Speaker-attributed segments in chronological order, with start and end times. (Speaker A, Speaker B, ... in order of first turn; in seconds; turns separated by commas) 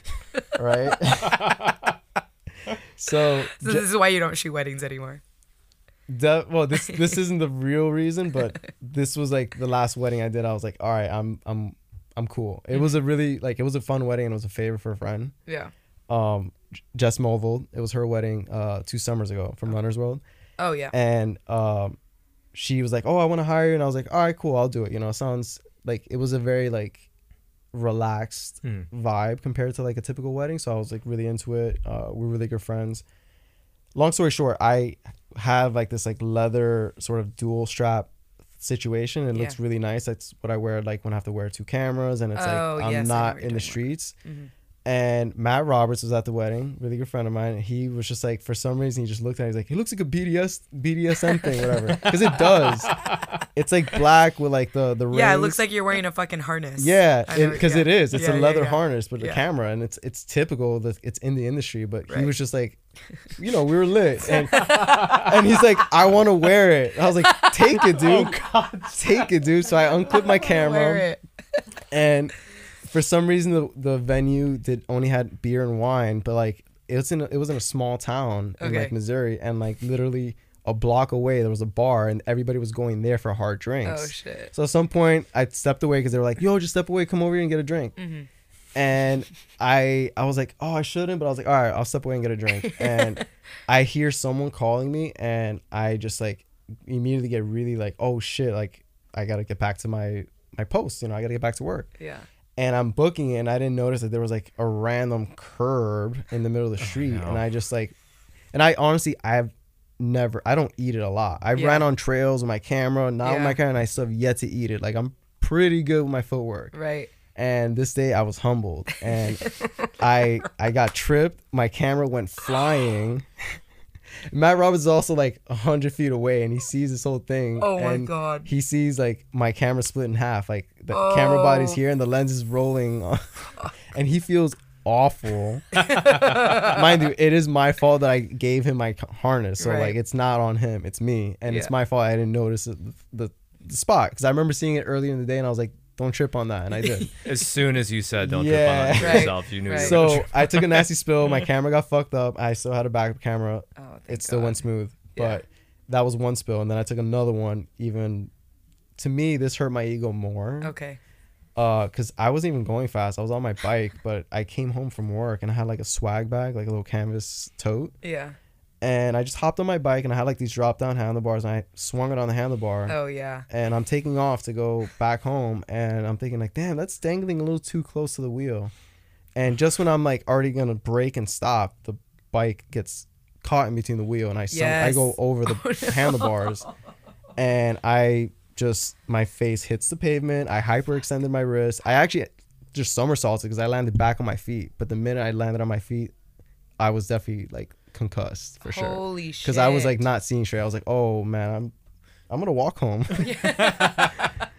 Speaker A: 0.3-1.6, Speaker B: 0.5-1.6, Speaker B: 3.0-3.9, Speaker A: 3.5-5.2, Speaker B: 6.1-15.3, Speaker A: 15.5-15.7, Speaker B: 16.1-20.2, Speaker A: 20.6-20.9, Speaker B: 20.9-22.0, Speaker B: 22.5-27.1, Speaker B: 27.7-33.0, Speaker B: 34.0-44.2, Speaker A: 39.3-39.6, Speaker A: 42.4-44.5, Speaker B: 44.9-53.0, Speaker C: 52.9-53.2, Speaker B: 53.5-55.6, Speaker A: 55.1-59.4, Speaker B: 56.8-62.8, Speaker A: 62.1-62.3, Speaker B: 63.4-71.1, Speaker A: 64.3-65.3, Speaker C: 64.6-65.3, Speaker A: 67.2-68.0, Speaker C: 67.9-69.3, Speaker A: 70.0-71.6, Speaker B: 71.9-88.0, Speaker A: 78.6-78.9, Speaker A: 83.8-84.5, Speaker A: 88.0-88.3, Speaker B: 88.8-101.9, Speaker A: 92.6-93.2, Speaker A: 102.0-102.3, Speaker B: 102.6-107.9, Speaker C: 106.8-107.4, Speaker B: 108.5-116.7, Speaker A: 111.5-111.9, Speaker A: 113.2-113.6, Speaker A: 116.7-117.1, Speaker B: 117.3-123.6, Speaker A: 119.1-119.9, Speaker B: 124.3-147.1, Speaker A: 127.6-128.5, Speaker A: 130.9-131.8, Speaker A: 135.8-136.8, Speaker C: 136.0-136.6, Speaker A: 139.6-140.0, Speaker A: 146.8-147.1, Speaker C: 147.2-150.6, Speaker B: 148.2-158.3, Speaker A: 149.0-150.2, Speaker A: 153.8-154.6, Speaker A: 155.2-155.4, Speaker B: 159.0-160.7, Speaker A: 160.6-161.0, Speaker B: 161.6-167.9, Speaker A: 168.0-168.4, Speaker B: 168.8-173.0, Speaker A: 172.9-173.5, Speaker B: 173.5-178.7, Speaker B: 179.3-186.7, Speaker A: 184.5-186.6, Speaker B: 187.4-196.1, Speaker B: 196.8-201.7, Speaker A: 198.6-200.0, Speaker B: 202.3-203.7, Speaker A: 203.2-204.5, Speaker C: 203.6-204.1